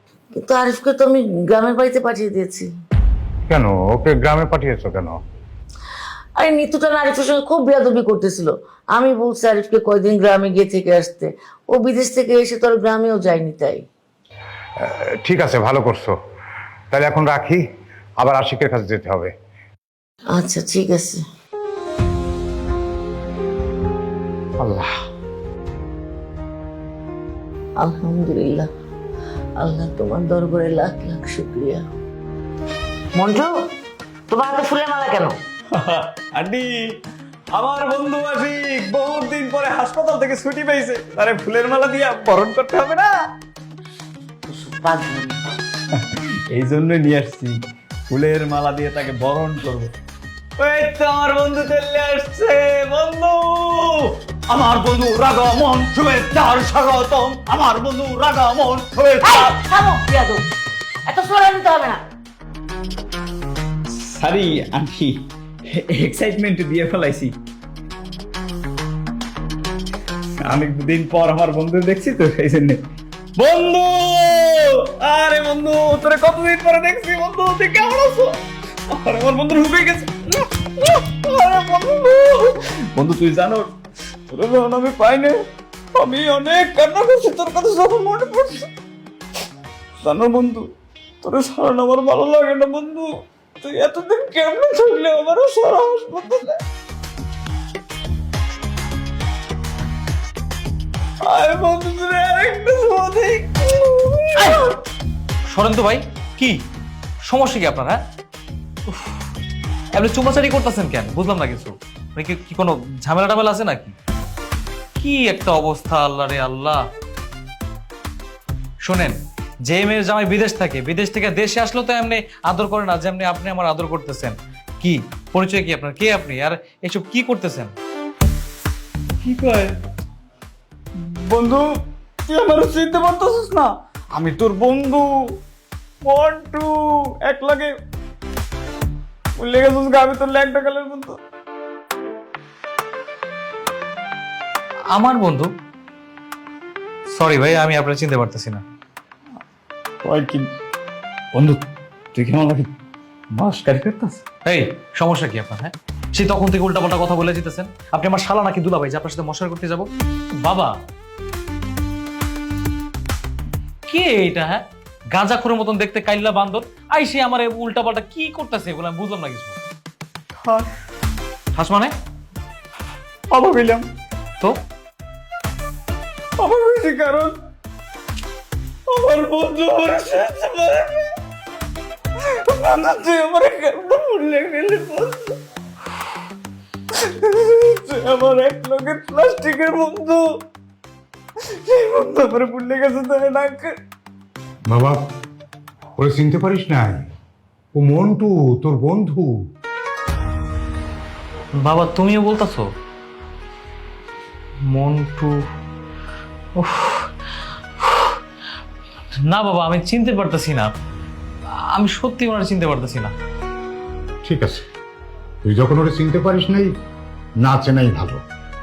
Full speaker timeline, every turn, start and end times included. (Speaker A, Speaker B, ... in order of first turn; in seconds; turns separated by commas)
Speaker A: 0.4-2.7, Speaker B: 3.5-5.2, Speaker A: 6.4-13.8, Speaker B: 14.8-16.1, Speaker B: 16.9-17.6, Speaker B: 18.2-19.3, Speaker A: 20.4-21.2, Speaker B: 24.6-24.9, Speaker A: 27.8-28.7, Speaker A: 29.6-31.9, Speaker A: 33.2-33.5, Speaker A: 34.3-35.4, Speaker C: 35.7-36.8, Speaker C: 37.5-43.1, Speaker A: 44.5-45.4, Speaker C: 46.5-47.6, Speaker C: 48.1-49.9, Speaker C: 50.6-59.5, Speaker A: 59.2-60.4, Speaker A: 61.1-62.0, Speaker C: 63.9-67.4, Speaker C: 70.4-72.8, Speaker C: 73.4-78.4, Speaker C: 78.9-83.7, Speaker C: 84.3-85.4, Speaker C: 86.0-88.7, Speaker C: 90.0-90.7, Speaker C: 91.2-96.6, Speaker C: 101.2-104.7, Speaker D: 104.4-104.7, Speaker D: 105.5-106.6, Speaker D: 107.3-108.0, Speaker D: 109.9-113.9, Speaker D: 115.0-116.8, Speaker D: 118.8-119.2, Speaker D: 119.7-127.7, Speaker D: 129.2-129.7, Speaker C: 131.0-131.7, Speaker C: 132.3-135.1, Speaker C: 136.0-137.8, Speaker C: 139.4-141.2, Speaker D: 144.9-145.5, Speaker D: 147.1-148.6, Speaker C: 150.0-150.5, Speaker C: 151.3-151.6, Speaker C: 152.1-152.7, Speaker C: 153.3-154.2, Speaker D: 154.5-159.9, Speaker D: 160.4-160.8, Speaker D: 163.9-169.6, Speaker C: 170.4-170.7, Speaker D: 171.6-171.9, Speaker C: 173.3-173.9, Speaker C: 176.4-177.4, Speaker C: 178.9-181.2, Speaker C: 182.5-185.4, Speaker C: 186.9-190.3, Speaker C: 191.4-193.8, Speaker B: 194.7-195.0, Speaker B: 196.0-197.1, Speaker B: 197.7-199.3, Speaker D: 201.6-202.7, Speaker D: 204.7-205.4, Speaker D: 206.6-207.1, Speaker D: 207.8-208.2, Speaker D: 209.3-210.7, Speaker D: 211.7-213.1, Speaker B: 214.2-214.6, Speaker B: 215.4-216.7, Speaker B: 217.4-218.2